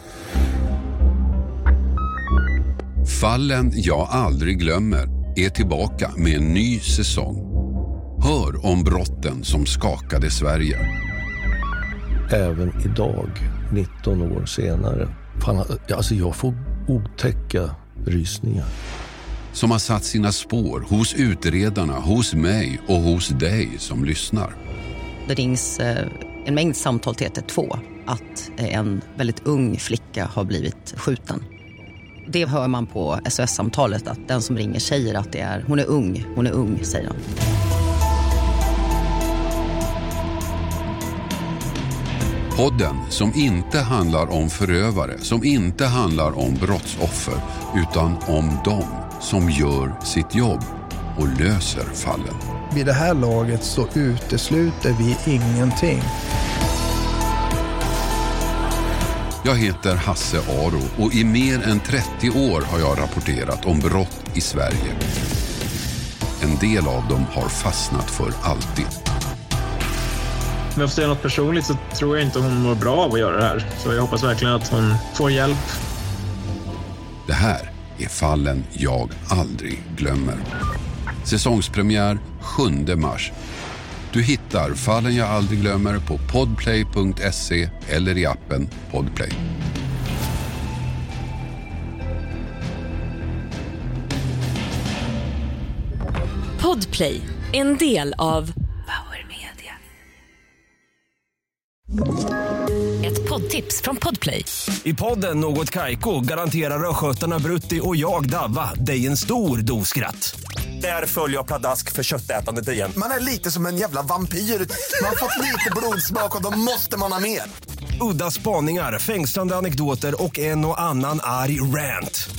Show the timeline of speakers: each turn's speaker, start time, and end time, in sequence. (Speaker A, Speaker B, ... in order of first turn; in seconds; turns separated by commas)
Speaker A: 3.0-7.5, Speaker A: 8.2-10.9, Speaker B: 12.3-18.7, Speaker A: 19.5-24.6, Speaker C: 25.3-31.4, Speaker C: 32.3-37.2, Speaker A: 42.5-52.4, Speaker D: 52.7-56.1, Speaker A: 59.4-65.0, Speaker A: 66.4-69.0, Speaker E: 70.8-75.7, Speaker A: 77.3-80.5, Speaker A: 81.2-83.3, Speaker A: 84.1-89.4, Speaker F: 96.6-99.7, Speaker F: 103.0-104.5, Speaker G: 104.8-113.0, Speaker H: 113.0-117.5, Speaker G: 118.0-122.3